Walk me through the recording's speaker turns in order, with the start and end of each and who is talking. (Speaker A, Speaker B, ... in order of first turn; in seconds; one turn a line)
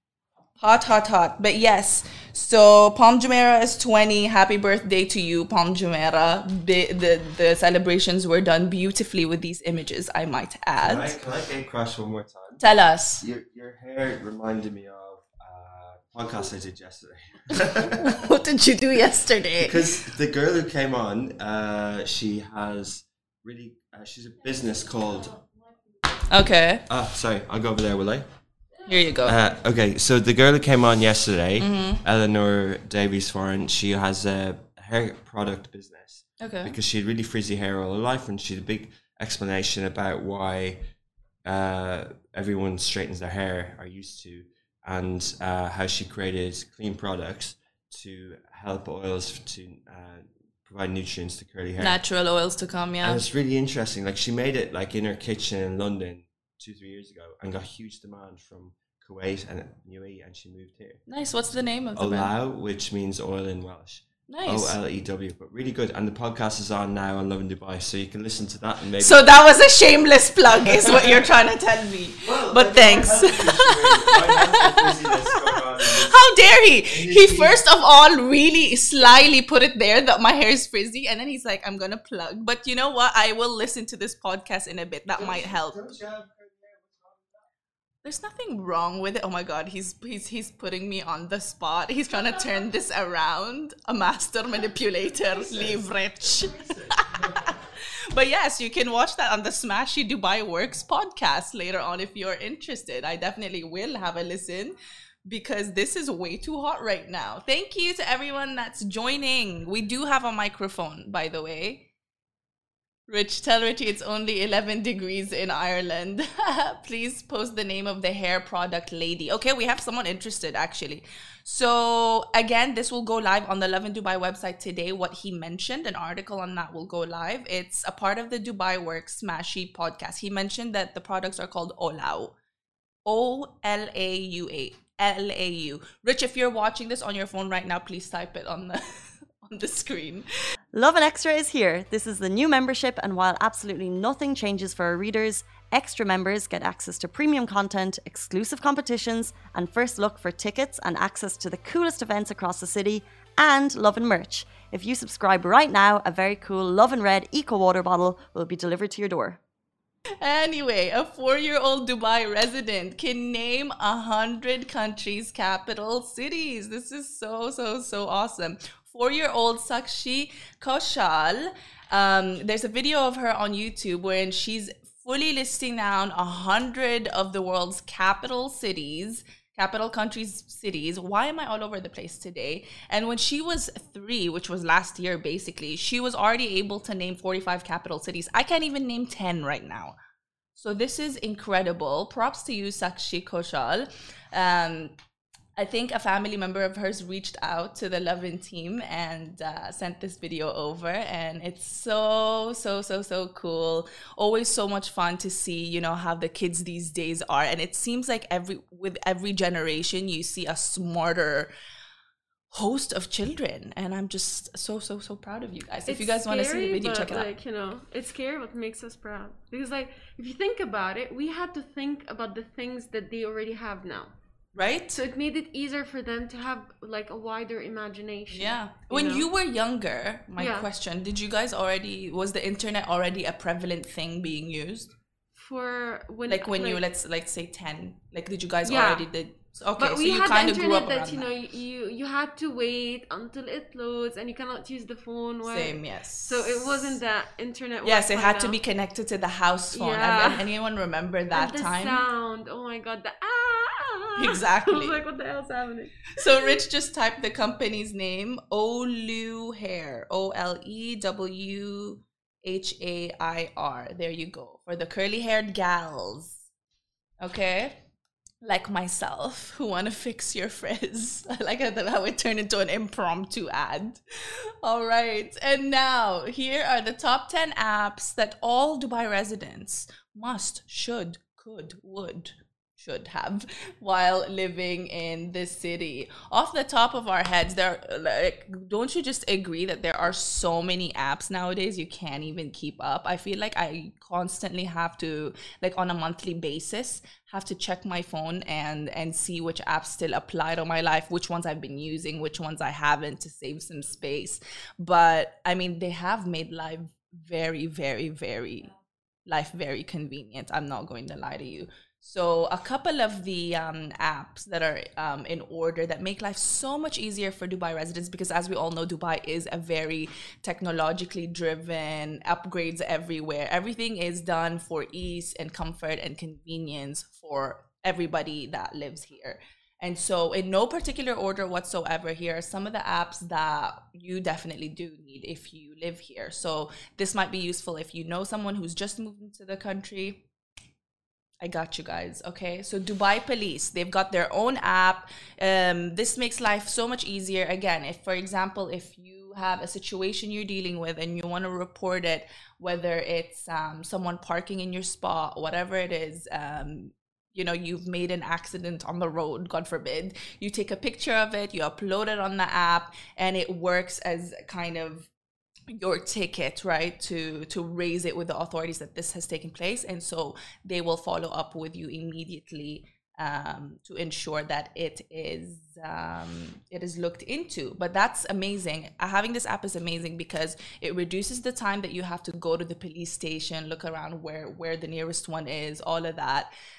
Speaker A: 0.6-11.1
Speaker B: 10.8-12.6
Speaker A: 12.6-13.2
Speaker B: 13.2-18.2
Speaker A: 17.9-20.1
Speaker B: 19.6-25.4
Speaker A: 26.3-26.8
Speaker B: 26.9-28.3
Speaker A: 28.9-29.4
Speaker B: 29.2-40.9
Speaker A: 31.6-32.0
Speaker A: 36.4-36.8
Speaker B: 41.5-52.0
Speaker A: 51.8-53.2
Speaker B: 53.0-61.0
Speaker A: 61.1-62.3
Speaker B: 62.0-69.3
Speaker A: 64.3-64.8
Speaker A: 69.0-85.8
Speaker B: 70.8-71.2
Speaker B: 72.2-76.2
Speaker B: 76.8-77.6
Speaker B: 85.2-87.4
Speaker A: 88.0-111.9
Speaker B: 95.4-95.8
Speaker B: 96.5-97.5
Speaker A: 113.1-132.4
Speaker A: 133.1-140.3
Speaker C: 140.7-159.4
Speaker A: 160.2-189.9
Speaker A: 190.6-194.9
Speaker A: 195.6-211.5
Speaker A: 212.5-217.3
Speaker D: 215.9-224.1
Speaker A: 224.6-225.0
Speaker D: 224.9-229.3
Speaker A: 228.3-234.9
Speaker D: 230.4-230.7
Speaker D: 235.3-236.8
Speaker A: 236.3-241.3
Speaker D: 238.7-239.1
Speaker D: 239.8-248.6
Speaker A: 245.4-247.0
Speaker A: 247.8-252.0
Speaker D: 249.7-250.5
Speaker D: 251.3-256.6
Speaker A: 254.2-255.0
Speaker A: 256.2-266.5
Speaker A: 267.2-267.8
Speaker A: 268.4-308.7
Speaker A: 309.3-340.3
Speaker A: 341.4-365.1
Speaker A: 365.7-386.5